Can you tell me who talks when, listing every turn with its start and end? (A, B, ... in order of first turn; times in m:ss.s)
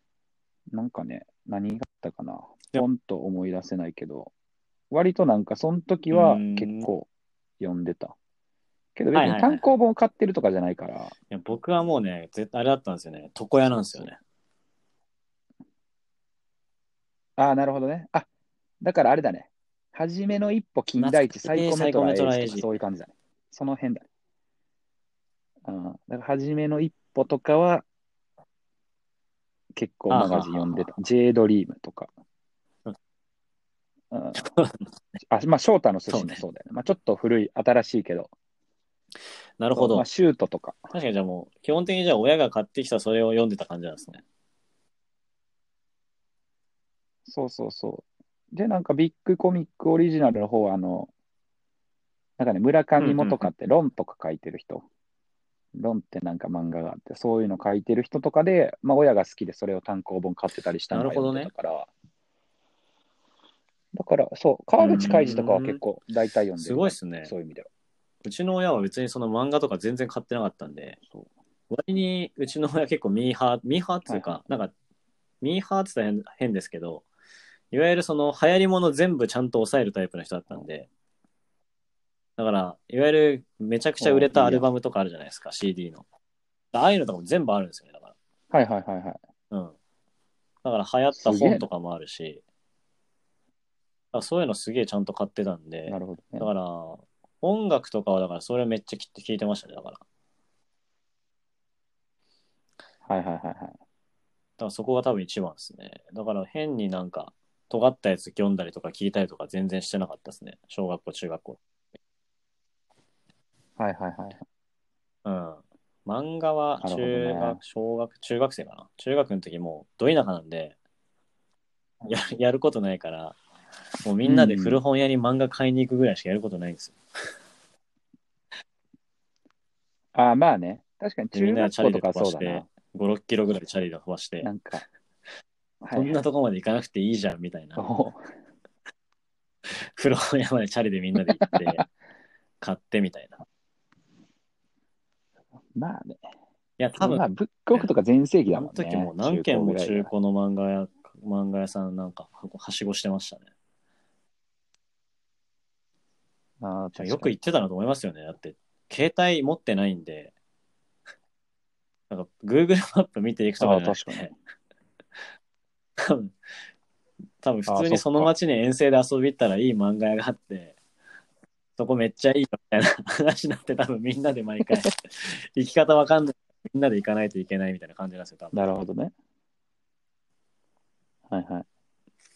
0:00.7-0:04.3 A
0:04.9-0:07.1 A
0:06.1-0:06.9 B
0:07.6-0:08.2 A
0:09.0-0:11.1 A
0:09.1-0:09.7 B
0:11.3-0:14.2 B
0:13.7-0:14.1 A
0:17.4-0:18.3 A
0:18.8-0:24.1 A
0:21.0-0:22.7 B
0:25.6-0:27.9 A
0:29.7-0:32.1 A
0:30.1-0:30.9 B
0:34.1-0:34.5 A
0:34.4-0:34.9 B
0:35.2-0:38.3 A
0:36.1-0:36.4 B
0:39.6-0:40.1 B
0:39.8-0:40.8 A
0:40.9-0:44.2 B
0:47.3-0:51.1 A
0:52.4-0:54.8 A
0:53.0-0:53.5 B
0:55.8-1:01.9 A
1:00.9-1:01.5 B
1:03.9-1:07.7 A
1:04.8-1:05.8 B
1:06.6-1:07.3 B
1:08.2-1:11.0 B
1:11.7-1:14.7 B
1:14.1-1:14.4 A
1:15.4-1:17.0 B
1:17.7-1:20.9 B
1:22.4-1:26.1 B
1:24.0-1:24.7 A
1:26.7-1:28.1 B
1:28.5-1:29.2 A
1:30.6-1:32.4 B
1:31.1-1:31.7 A
1:34.1-1:40.0 B
1:35.9-1:36.5 A
1:43.1-1:43.8 A
1:44.6-1:51.6 B
1:53.8-1:54.4 A
1:55.2-2:00.8 B
1:56.8-1:57.6 A
2:02.0-2:03.4 B
2:04.0-2:07.0 B
2:04.2-2:04.8 A
2:10.2-2:12.6 A
2:11.3-2:14.5 B
2:14.4-2:14.8 A
2:15.8-2:16.2 A
2:15.9-2:17.8 B
2:17.8-2:18.2 A
2:19.7-2:21.8 B
2:21.5-2:21.8 A
2:22.6-2:23.4 B
2:25.8-2:26.2 A
2:26.8-2:27.9 B
2:27.0-2:30.1 A
2:28.5-2:33.5 B
2:36.6-2:37.3 A
2:37.0-2:40.3 B
2:42.1-2:44.3 B
2:43.6-2:44.3 A
2:46.0-2:46.4 B
2:47.4-2:50.8 B
2:47.7-2:48.3 A
2:51.8-2:58.7 B
2:58.5-2:59.1 A
3:01.3-3:01.7 A